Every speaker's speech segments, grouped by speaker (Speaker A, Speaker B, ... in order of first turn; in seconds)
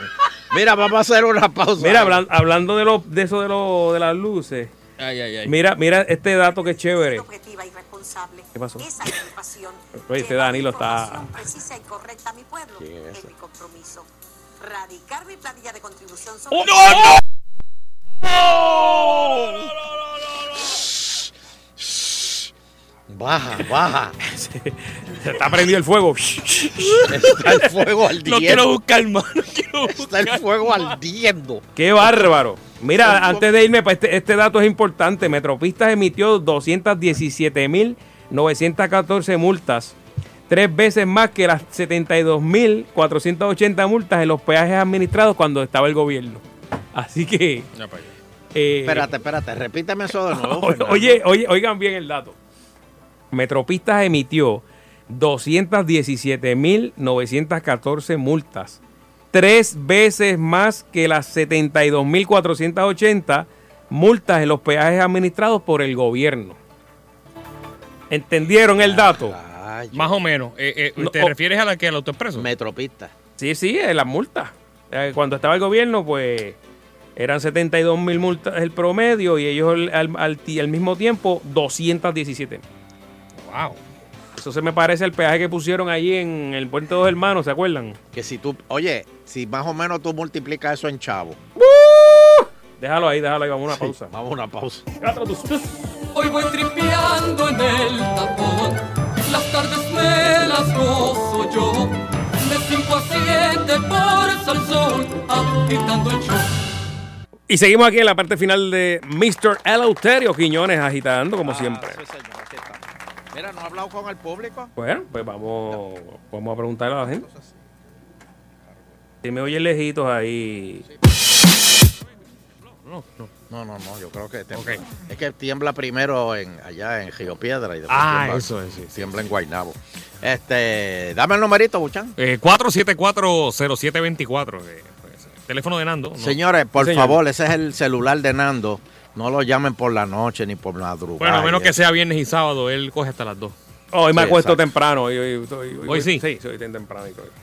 Speaker A: 0.5-2.2, 12.7-13.3, 20.8-21.2, 21.8-22.5, 23.1-24.2, 27.1-28.7, 29.9-31.6, 33.0-33.5, 48.8-51.2, 68.8-70.2, 72.3-73.1, 88.1-91.4, 93.7-94.8, 111.4-112.8, 113.3-114.7, 117.0-117.6, 123.5-132.1, 136.2-141.7, 144.1-144.6
Speaker B: 1.8-4.7, 5.5-7.3, 8.5-8.9, 10.0-11.4, 24.3-27.1, 31.8-39.9, 40.5-47.7, 48.5-49.1, 50.3-52.4, 53.3-58.8, 59.3-66.6, 68.1-69.3, 71.0-71.3, 73.4-76.6, 77.2-82.6, 84.3-88.0, 91.6-94.1, 95.0-95.7, 107.5-112.0, 114.8-117.2, 119.2-120.8, 136.8-137.2, 143.9-147.3
Speaker C: 5.0-5.3, 16.6-17.1, 18.6-19.7, 28.2-31.0, 47.7-48.1, 69.9-72.5, 83.4-83.8, 122.7-123.3, 124.5-124.8, 127.9-129.3, 132.2-136.4, 141.2-143.5, 145.9-146.2
Speaker D: 7.2-8.4, 9.1-14.1, 14.6-16.6
Speaker E: 96.1-106.5